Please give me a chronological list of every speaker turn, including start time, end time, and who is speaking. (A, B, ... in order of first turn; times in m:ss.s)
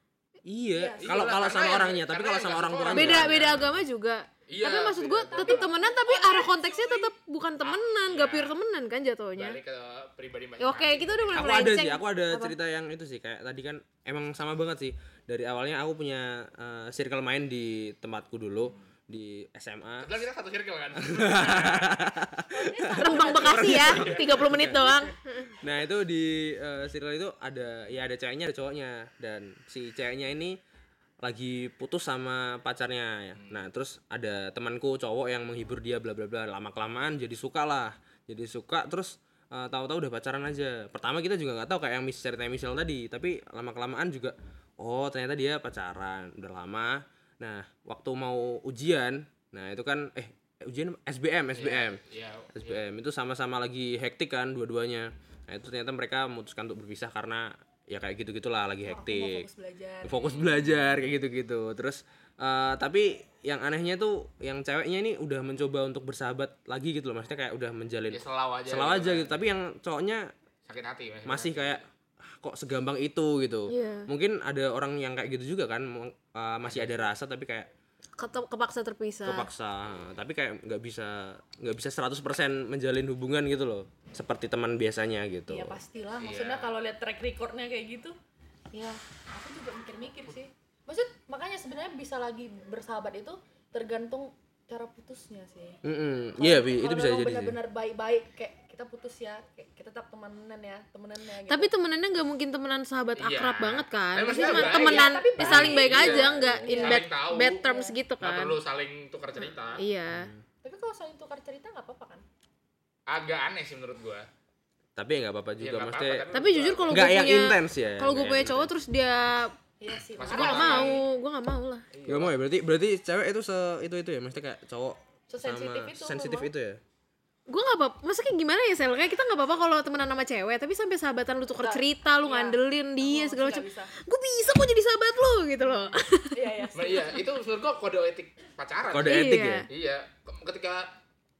0:00.5-0:03.8 A
0:00.8-0:01.2 B
0:01.0-0:03.8 C
0:02.9-0:09.6 D
0:04.5-0:05.7 C
0:05.3-0:07.1 B
0:07.6-0:08.6 C
0:09.4-0:11.5 C
0:10.6-0:12.6 D
0:11.3-0:20.2 A
0:20.0-0:22.1 C
0:21.0-0:30.6 A
0:22.5-0:24.2 B
0:23.0-0:25.5 D
0:23.7-0:24.8 C
0:31.2-0:52.0 A
0:33.4-0:33.7 C
0:51.6-0:52.8 C
0:52.5-0:59.5 A
0:58.8-1:00.4 B
1:00.0-1:10.3 A
1:00.2-1:00.6 C
1:08.1-1:09.4 C
1:10.7-1:11.8 C
1:11.2-1:17.7 A
1:13.7-1:14.1 D
1:16.6-1:17.1 C
1:18.2-1:19.5 D
1:19.2-1:25.8 A
1:25.5-1:28.1 B
1:26.2-1:26.7 C
1:28.7-1:35.8 B
1:35.8-1:37.6 A
1:36.4-1:41.7 B
1:41.5-1:48.6 D
1:43.2-1:47.6 C
1:44.3-1:48.0 B
1:45.4-1:45.7 A
1:48.2-1:49.8 C
1:49.8-1:50.3 D
1:50.1-1:50.4 A
1:50.6-1:52.2 B
1:53.1-1:54.3 C
1:55.0-1:56.3 A
1:55.6-1:57.2 C
1:56.3-1:59.6 D
1:56.9-1:58.7 A
1:59.8-2:01.0 B
2:00.2-2:01.0 C
2:00.3-2:01.9 D
2:01.9-2:02.4 C
2:02.1-2:06.8 A
2:05.3-2:06.5 B
2:07.5-2:16.4 D
2:11.6-2:13.9 B
2:15.6-2:17.2 B
2:16.8-2:21.0 C
2:18.9-2:19.7 A
2:19.0-2:19.7 D